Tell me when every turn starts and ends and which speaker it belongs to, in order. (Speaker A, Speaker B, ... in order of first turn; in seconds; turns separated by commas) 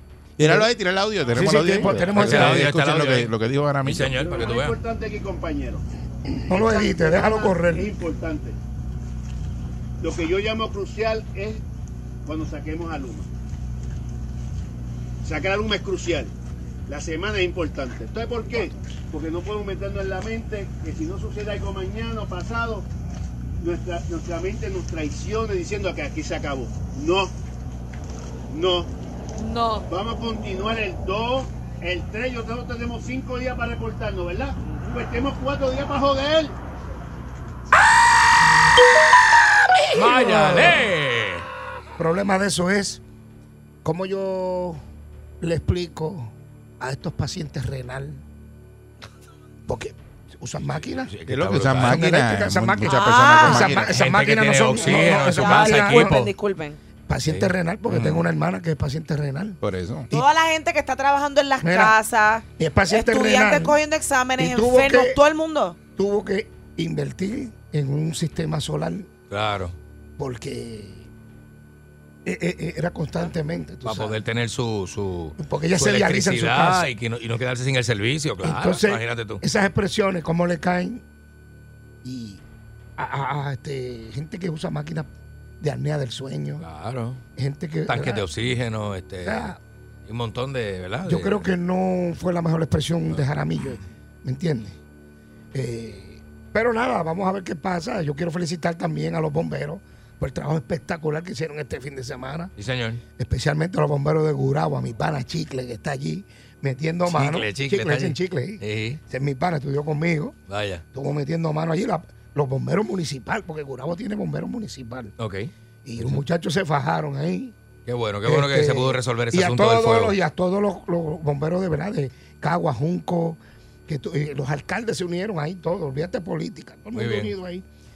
Speaker A: 0.4-4.1, Speaker B: 0.4-0.7, Speaker B: 1.3-2.7, Speaker C: 2.1-3.3, Speaker C: 3.8-4.8, Speaker D: 4.2-5.8, Speaker B: 6.3-7.9, Speaker D: 6.7-8.6, Speaker D: 10.0-11.6, Speaker D: 12.2-13.3, Speaker D: 15.2-16.3, Speaker D: 16.9-22.9, Speaker D: 23.6-27.3, Speaker D: 28.5-28.9, Speaker E: 29.4-29.8, Speaker D: 29.9-36.5, Speaker B: 39.9-40.9, Speaker C: 39.9-41.4, Speaker B: 42.0-43.0, Speaker B: 43.8-44.8, Speaker B: 45.4-48.2, Speaker B: 49.7-51.1, Speaker C: 50.8-52.0, Speaker A: 51.3-53.9, Speaker B: 51.8-56.3, Speaker E: 52.9-53.7, Speaker C: 53.8-56.3, Speaker E: 54.8-56.8, Speaker B: 57.1-59.6, Speaker C: 57.2-57.5, Speaker A: 57.9-58.2, Speaker A: 59.6-60.1, Speaker E: 60.1-65.8, Speaker B: 61.6-61.9, Speaker B: 62.6-63.8, Speaker B: 64.4-65.2, Speaker B: 65.8-69.1, Speaker C: 69.3-69.7, Speaker B: 70.2-71.1, Speaker B: 72.2-74.2, Speaker C: 73.8-79.4, Speaker B: 75.4-76.8, Speaker B: 78.4-81.0, Speaker B: 82.0-82.4, Speaker B: 83.0-85.1, Speaker B: 85.6-86.6, Speaker C: 86.6-87.2, Speaker B: 87.4-88.2, Speaker C: 87.9-89.5, Speaker B: 89.2-89.6, Speaker C: 90.1-91.4, Speaker B: 91.0-94.8, Speaker B: 95.5-102.5, Speaker C: 102.6-103.0, Speaker B: 103.2-110.3, Speaker C: 107.0-109.0, Speaker C: 110.5-110.8, Speaker B: 110.9-115.1, Speaker C: 115.2-116.2, Speaker B: 115.8-117.5, Speaker C: 117.9-120.2, Speaker B: 118.2-127.6, Speaker C: 126.9-127.3